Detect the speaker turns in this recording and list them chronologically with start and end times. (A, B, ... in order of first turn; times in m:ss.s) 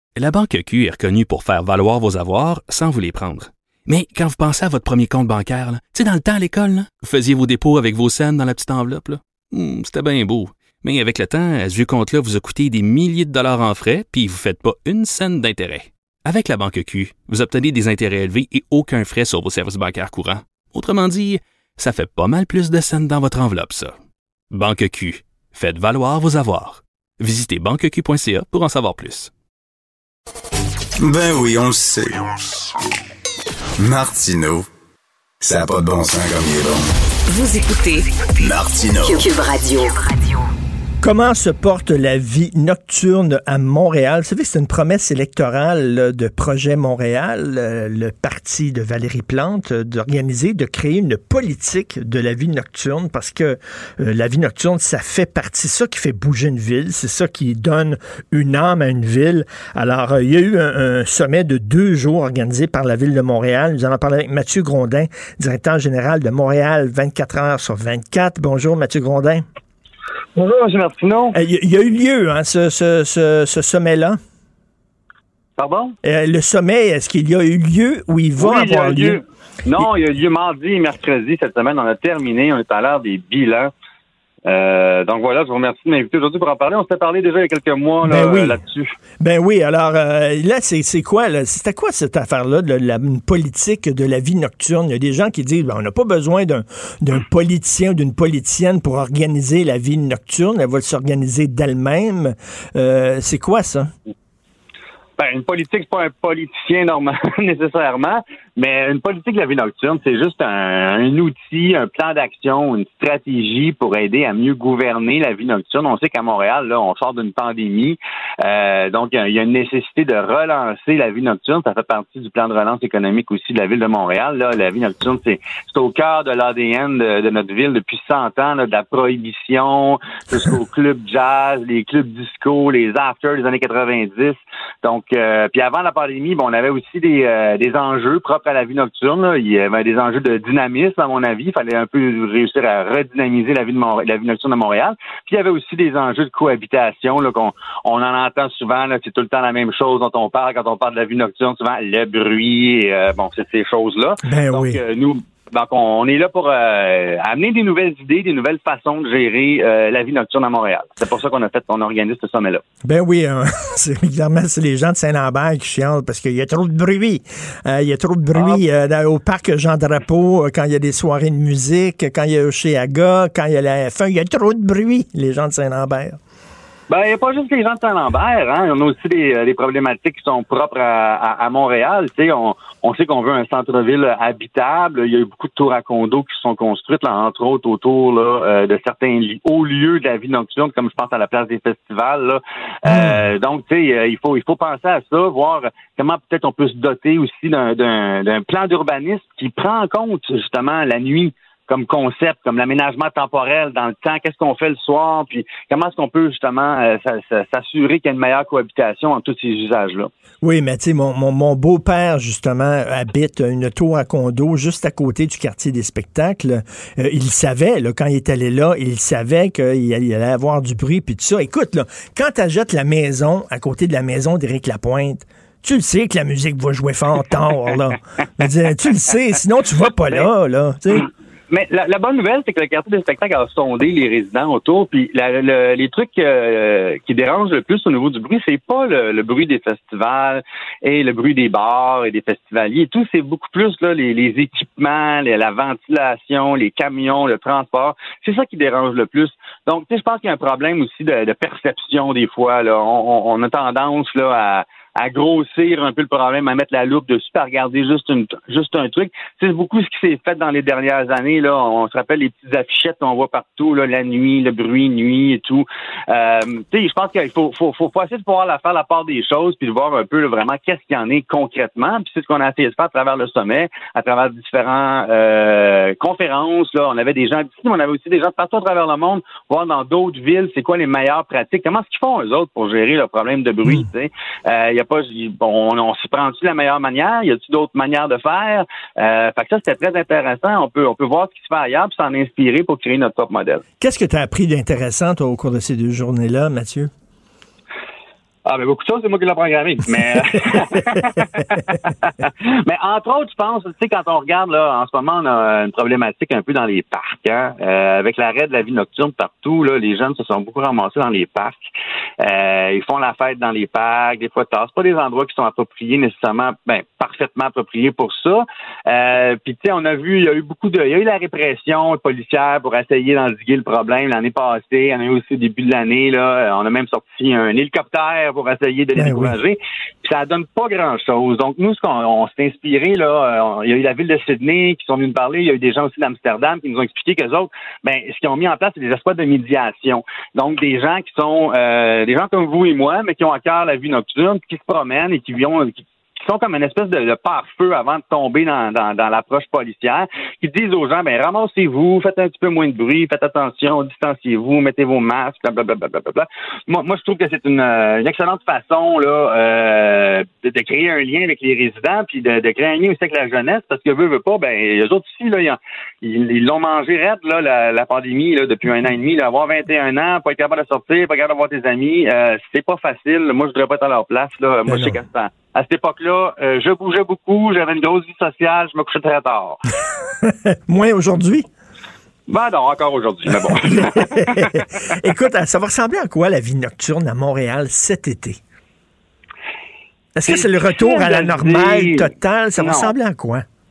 0:00.2-0:23.9 A
0:24.5-0:29.3 A
0:31.0-0:32.3 B
0:33.8-0:34.7 B
0:35.4-0:36.9 B
0:37.3-0:38.1 C
0:38.4-0:39.2 B
0:39.0-0:40.4 C
0:41.0-1:09.4 D
1:10.4-1:11.3 E
1:11.3-1:14.2 D
1:15.6-1:16.0 E
1:16.0-1:19.2 D
1:18.4-1:23.7 E
1:24.4-1:29.0 E
1:28.0-1:28.6 D
1:29.2-1:43.9 D
1:45.2-2:42.6 E
2:34.2-2:34.8 D
2:42.8-2:56.2 D
2:48.4-2:48.6 E
2:56.9-3:30.1 E
3:12.8-3:13.2 D
3:30.4-3:51.1 D
3:51.0-4:53.6 E
4:53.8-4:56.9 D
4:58.4-5:11.6 E
5:12.2-6:19.6 E
5:29.0-5:29.4 D
6:14.7-6:15.0 D
6:20.2-6:21.5 D
6:22.3-6:24.6 E
6:23.6-6:28.4 D
6:30.2-6:33.4 D
6:30.2-6:32.9 E